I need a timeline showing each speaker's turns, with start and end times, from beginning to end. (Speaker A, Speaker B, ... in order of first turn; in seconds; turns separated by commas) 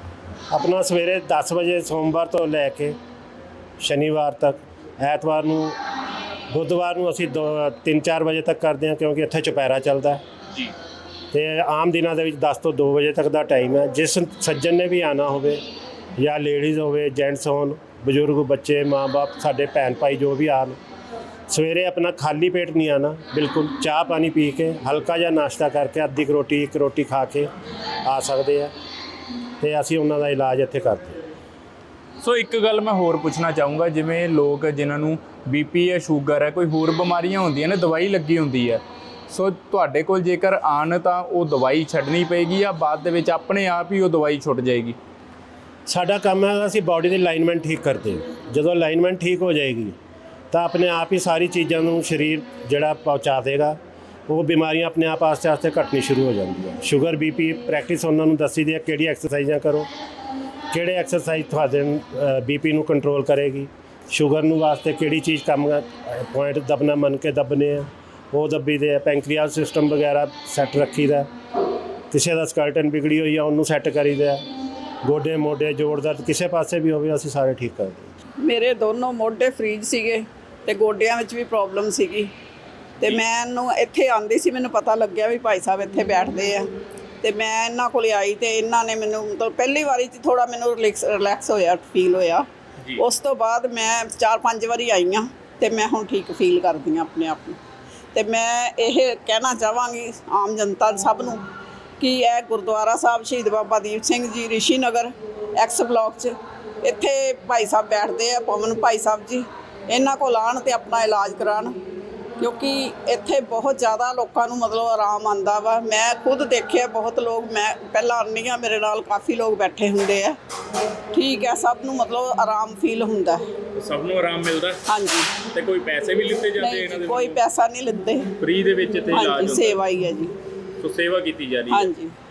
Speaker A: 0.5-3.0, Speaker A: 3.8-5.8, Speaker A: 6.5-10.2, Speaker A: 11.3-15.6, Speaker A: 16.2-20.8, Speaker A: 21.5-27.5, Speaker A: 28.0-28.7, Speaker A: 29.6-31.2, Speaker B: 32.2-45.0, Speaker A: 45.9-49.9, Speaker A: 50.5-53.8, Speaker A: 54.3-59.9, Speaker A: 60.7-71.3, Speaker A: 72.1-74.4, Speaker A: 75.0-78.1, Speaker C: 78.4-82.3, Speaker C: 83.0-86.7, Speaker C: 87.2-92.5, Speaker C: 93.0-97.6, Speaker C: 98.1-101.4, Speaker C: 102.0-111.7, Speaker C: 112.4-120.3, Speaker C: 121.1-123.4, Speaker B: 123.8-124.8, Speaker C: 124.9-125.3, Speaker B: 125.4-127.4, Speaker C: 126.6-128.3, Speaker B: 128.4-129.8, Speaker C: 129.1-130.3, Speaker B: 130.8-131.9, Speaker C: 131.7-132.1